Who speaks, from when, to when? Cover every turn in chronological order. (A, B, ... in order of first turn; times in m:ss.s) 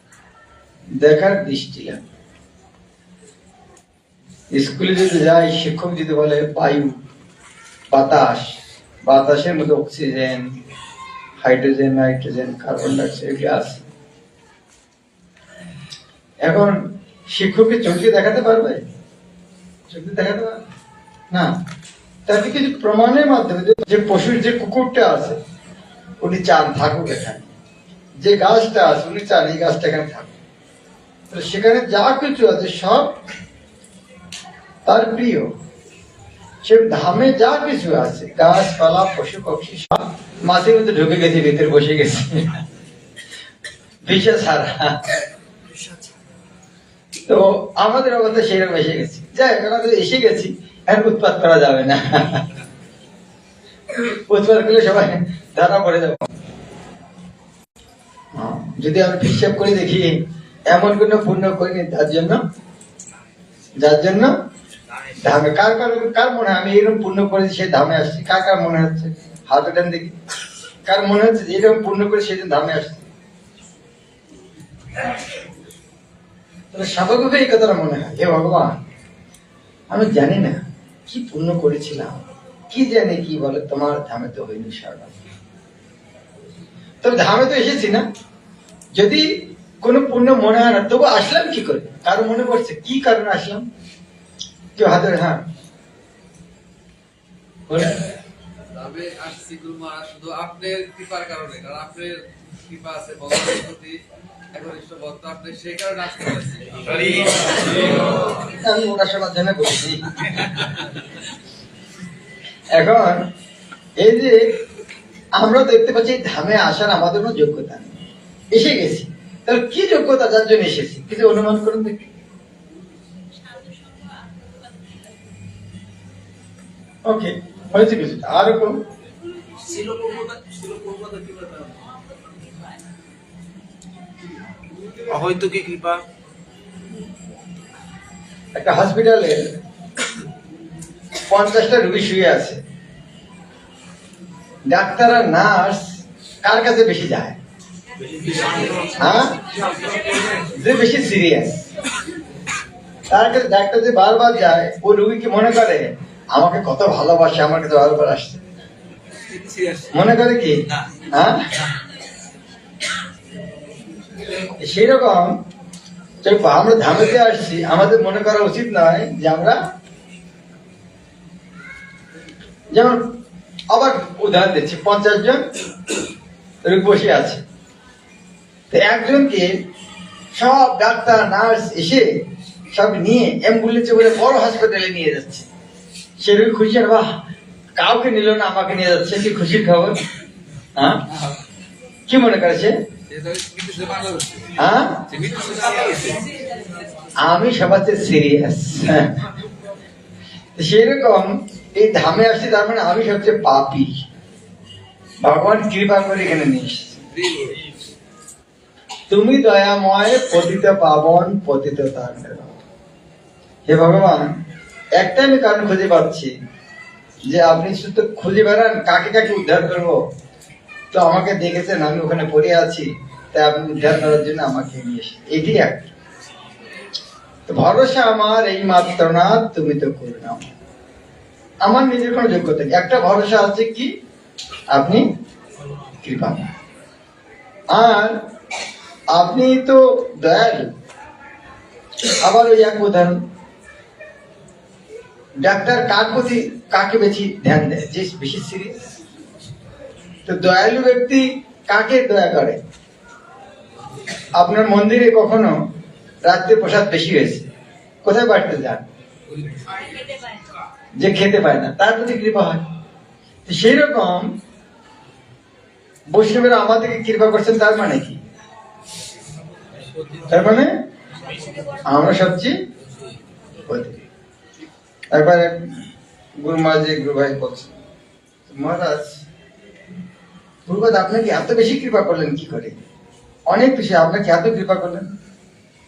0:01.0-0:02.0 A
0:04.5-0:07.0 A
0:07.9-0:10.6 A
0:11.4-0:13.9 A
0:16.4-0:18.8 A
0:19.9-0:20.6 A
0:22.2-0:25.4 A
0:26.2-0:27.5 A
0:28.2-0:30.4 A
0:31.3-0:33.2 A
0:34.8-0:35.5 A
0:36.6-0:42.6 A
0:44.0-0:45.2 A
0:47.2-0:52.5 A
0:54.0-0:56.3 A
0:58.3-1:02.4 A
1:03.8-1:04.3 A
1:05.0-1:10.2 A
1:10.8-1:13.1 A
1:16.7-1:18.8 A
1:19.9-1:25.1 A
1:27.0-1:28.1 A
1:28.9-1:33.7 A
1:34.8-1:35.4 A
1:37.7-1:38.0 A
1:38.7-1:44.0 B
1:44.5-1:47.4 B
1:48.4-1:50.6 A
1:52.7-1:53.3 A
1:54.0-1:54.4 A
1:55.3-2:02.1 A
2:07.0-2:08.8 A
2:09.7-2:11.2 C
2:10.6-2:11.4 B
2:15.0-2:16.0 C
2:18.5-2:19.5 A
2:21.2-2:22.6 A
2:24.7-2:27.4 A
2:28.9-2:29.5 A
2:30.3-2:31.7 A
2:33.1-2:38.4 A
2:39.9-2:41.5 A
2:44.5-2:45.4 A
2:46.2-2:49.6 A
2:52.7-2:53.2 A
2:53.7-2:55.5 A
2:56.6-2:57.4 A
2:58.7-2:59.5 A
3:00.3-3:05.5 A
3:06.2-3:07.2 A
3:07.8-3:10.0 A
3:10.7-3:11.1 A
3:12.1-3:12.8 A
3:13.1-3:14.5 B
3:14.5-3:15.1 A
3:15.2-3:16.2 B
3:17.2-3:19.4 A
3:20.6-3:24.0 A
3:25.2-3:27.0 A
3:27.1-3:27.6 B
3:29.1-3:32.6 A
3:33.6-3:34.4 A
3:35.0-3:36.3 A
3:37.2-3:40.0 A
3:40.9-3:46.0 A
3:47.5-3:50.6 A
3:51.6-3:53.9 A
3:54.7-3:55.1 A
3:56.0-3:56.6 A
3:57.7-3:58.2 A
3:59.1-4:00.7 A
4:02.2-4:03.2 A
4:05.4-4:08.8 A
4:10.2-4:12.6 A
4:14.3-4:15.6 A
4:16.2-4:17.5 A
4:18.0-4:18.8 A
4:21.0-4:22.6 A
4:23.4-4:24.3 A
4:26.1-4:28.2 A
4:30.2-4:30.9 A
4:31.6-4:32.6 A
4:33.6-4:34.0 A
4:35.1-4:35.8 A
4:36.4-4:37.8 A
4:38.5-4:39.2 A
4:40.6-4:42.8 A
4:43.5-4:45.1 A